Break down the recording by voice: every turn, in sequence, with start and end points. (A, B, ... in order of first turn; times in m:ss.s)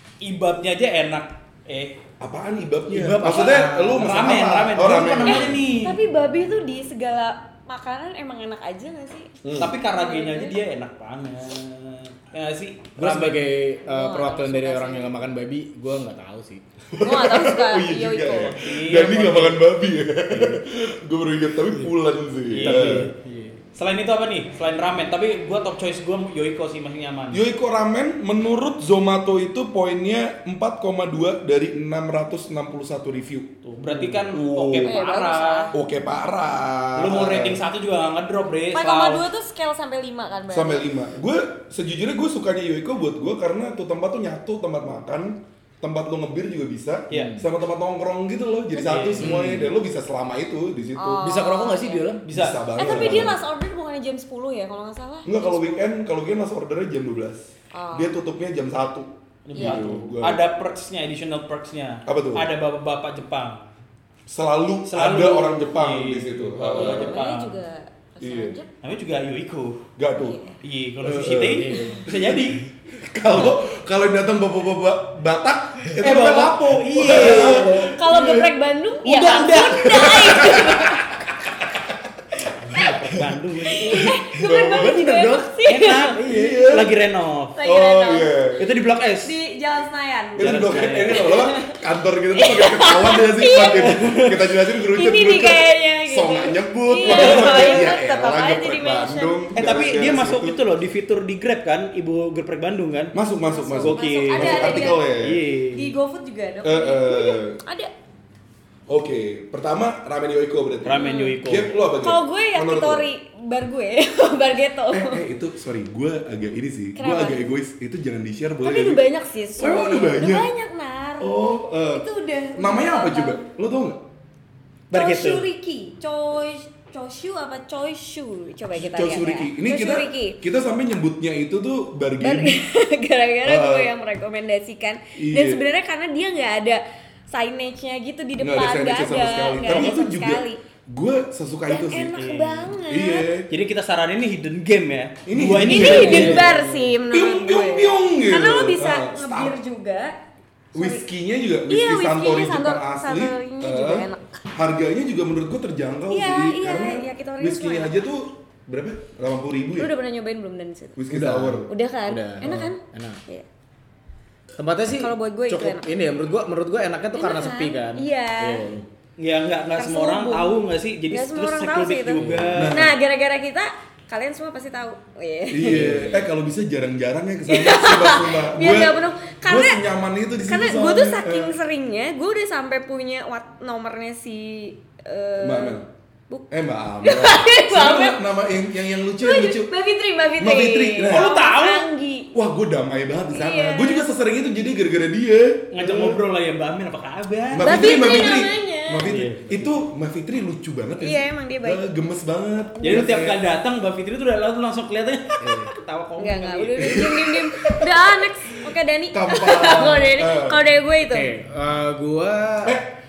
0:00.2-0:02.0 A
0:02.2-0:05.6 B
0:02.9-0:04.2 C
0:03.1-0:06.0 A
0:05.2-0:09.4 D
0:09.4-0:09.7 B
0:09.6-0:13.5 A
0:09.9-0:10.6 D
0:13.0-0:16.6 C
0:13.8-0:15.1 D
0:16.9-0:23.1 B
0:17.0-0:18.6 D
0:18.5-0:19.6 A
0:20.3-0:20.6 C
0:22.5-0:23.1 A
0:22.6-0:23.6 C
0:23.7-0:27.4 A
0:27.3-0:33.5 B
0:33.6-0:35.7 A
0:34.3-0:35.0 B
0:34.8-0:35.7 D
0:35.7-0:37.6 B
0:37.0-0:39.2 A
0:38.7-0:40.8 D
0:40.5-0:51.3 B
0:47.1-0:47.4 C
0:48.8-0:49.4 A
0:49.2-0:49.7 C
0:51.0-0:52.1 D
0:51.2-0:52.2 C
0:52.2-0:53.2 A
0:52.3-0:53.4 B
0:52.8-0:55.6 D
0:55.2-1:00.4 B
0:57.7-0:58.1 D
0:59.5-1:03.7 A
0:59.5-1:00.0 D
1:02.0-1:02.5 B
1:04.3-1:07.2 B
1:04.9-1:07.6 A
1:06.7-1:08.7 D
1:08.2-1:08.6 B
1:08.8-1:09.8 A
1:10.0-1:10.4 B
1:10.2-1:10.5 D
1:10.6-1:12.6 A
1:11.0-1:12.4 B
1:11.4-1:12.0 C
1:12.9-1:18.5 B
1:16.0-1:18.1 A
1:17.2-1:21.1 D
1:19.0-1:20.4 A
1:19.8-1:21.0 B
1:22.6-1:24.2 A
1:23.6-1:26.2 D
1:24.3-1:25.0 B
1:24.8-1:27.6 A
1:24.8-1:25.4 C
1:26.2-1:26.6 C
1:26.2-1:26.9 B
1:27.6-1:28.3 D
1:27.6-1:28.7 B
1:28.6-1:29.4 A
1:29.2-1:31.8 D
1:30.4-1:40.6 B
1:30.4-1:31.3 A
1:32.3-1:34.2 D
1:33.8-1:34.5 A
1:34.8-1:39.4 D
1:37.0-1:37.9 A
1:39.5-1:43.1 A
1:43.1-1:45.4 B
1:43.5-1:45.0 D
1:43.7-1:45.9 A
1:45.7-1:47.9 D
1:46.6-1:47.6 B
1:48.9-1:53.1 B
1:50.8-1:51.7 A
1:51.0-1:51.4 D
1:52.0-1:55.2 D
1:54.9-1:59.0 B
1:57.0-1:57.4 D
1:58.6-2:03.4 D
1:59.6-2:00.5 B
2:01.2-2:04.0 B
2:04.9-2:05.4 A
2:04.9-2:10.4 D
2:08.7-2:12.6 B
2:12.2-2:20.6 D
2:13.4-2:13.9 B
2:15.2-2:15.6 B
2:18.4-2:22.2 B
2:21.7-2:23.3 D
2:22.1-2:22.7 A
2:22.9-2:23.5 B
2:23.5-2:26.4 A
2:25.2-2:26.6 B
2:25.6-2:30.2 D
2:25.8-2:26.8 C
2:27.1-2:29.6 B
2:30.7-2:31.0 D
2:30.7-2:39.9 B
2:31.7-2:34.2 D
2:36.1-2:38.0 D
2:39.8-2:41.0 D
2:41.0-2:41.7 B
2:41.1-2:43.2 C
2:41.7-2:43.4 D
2:44.6-2:48.9 C
2:45.0-2:45.9 D
2:47.1-2:48.6 D
2:49.2-2:52.9 A
2:49.7-2:50.6 D
2:51.1-2:55.9 D
2:52.2-2:52.6 C
2:52.5-2:53.0 B
2:55.5-3:01.6 B
2:55.6-2:56.3 C
2:57.5-2:59.8 D
3:00.4-3:05.8 D
3:05.4-3:05.9 B
3:06.5-3:09.7 B
3:07.0-3:08.2 D
3:09.2-3:12.3 D
3:10.4-3:11.3 B
3:11.1-3:11.9 A
3:12.3-3:16.2 B
3:13.3-3:14.1 D
3:15.7-3:17.8 A
3:17.5-3:23.4 B
3:17.6-3:19.1 D
3:19.0-3:19.5 A
3:21.0-3:21.8 D
3:22.8-3:27.0 A
3:25.4-3:25.7 C
3:26.2-3:31.3 D
3:26.8-3:28.1 B
3:29.1-3:30.6 B
3:31.0-3:32.8 C
3:32.6-3:32.9 B